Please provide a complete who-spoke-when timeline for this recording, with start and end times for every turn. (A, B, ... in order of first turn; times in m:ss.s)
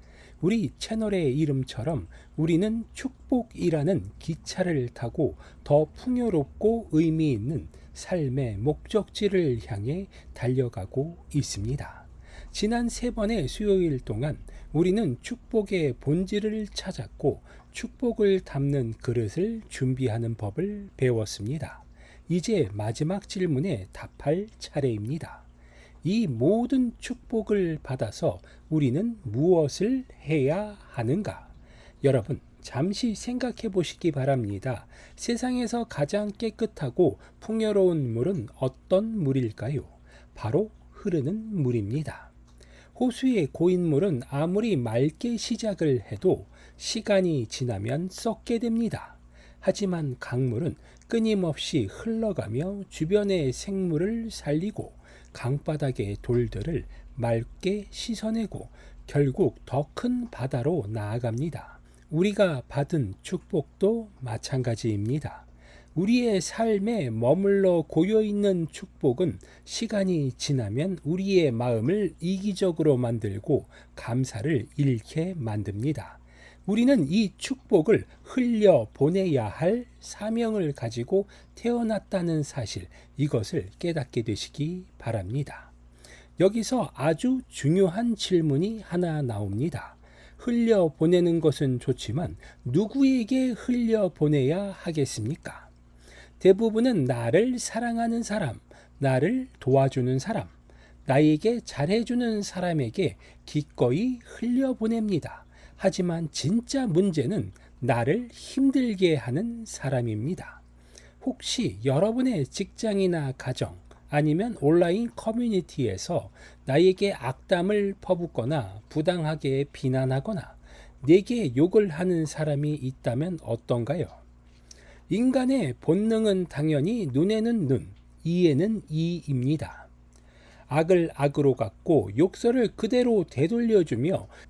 0:00.4-0:25.5 A
0:26.0-0:42.3 A
0:43.0-1:25.7 A
1:26.4-1:35.7 A
1:36.4-1:40.6 A
1:41.1-1:50.6 A
1:51.2-2:04.2 A
2:05.1-2:09.9 A
2:10.7-2:14.3 A